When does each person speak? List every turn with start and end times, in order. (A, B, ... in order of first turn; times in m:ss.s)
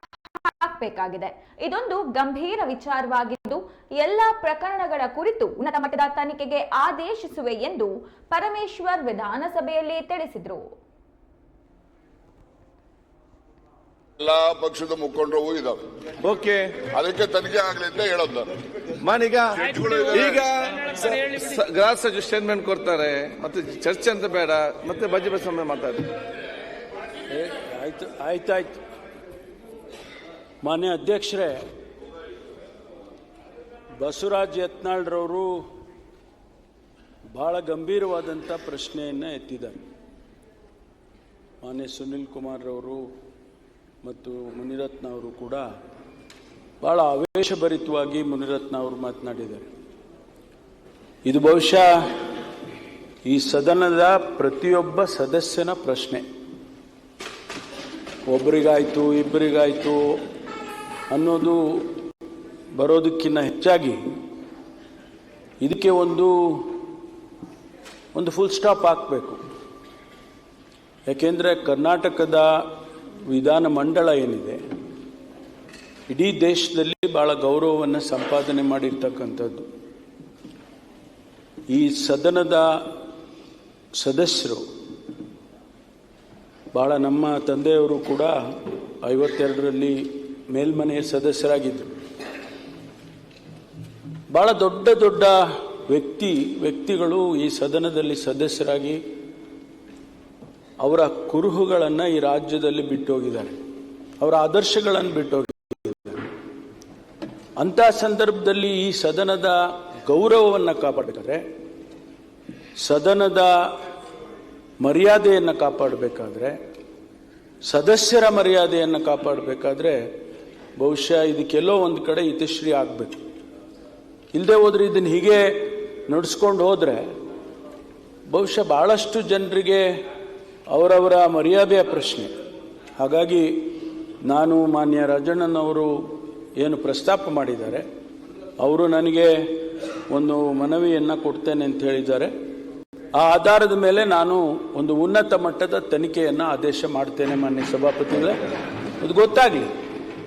0:00.4-0:10.6 A
0:14.2-0:15.8 B
0:16.2-0:16.8 C
0:16.9-0:18.5 B
0:19.0-0:26.1 C
0:19.7-0:20.4 B
0:27.3-0:28.8 D
0:30.6-0:31.6 D
0:34.0-0:35.6 D
0:37.3-0:39.8 D
0:41.6-0:43.0 D
0:44.0-0:45.7 D
0:46.8-0:49.7 D
0:51.2-0:52.0 D
0:53.2-0:56.2 D
0:58.3-1:00.2 D
1:01.1-1:02.0 D
1:02.8-1:04.0 D
1:05.6-1:06.9 D
1:08.1-1:09.4 D
1:11.1-1:12.5 D
1:13.3-1:14.6 D
1:16.1-1:19.7 D
1:21.7-1:22.7 D
1:24.0-1:24.6 D
1:26.7-1:31.9 D
1:34.3-1:39.0 D
1:40.8-1:43.6 D
1:44.2-1:46.3 D
1:47.6-1:51.4 D
1:52.8-1:53.5 D
1:54.8-1:56.6 D
1:57.6-2:00.0 D
2:00.8-2:03.2 D
2:04.3-2:07.1 D
2:08.3-2:09.8 D
2:10.7-2:12.3 D
2:13.0-2:13.7 D
2:14.2-2:15.9 D
2:16.6-2:17.8 D
2:18.6-2:19.3 D
2:20.1-2:22.3 D
2:23.2-2:29.7 D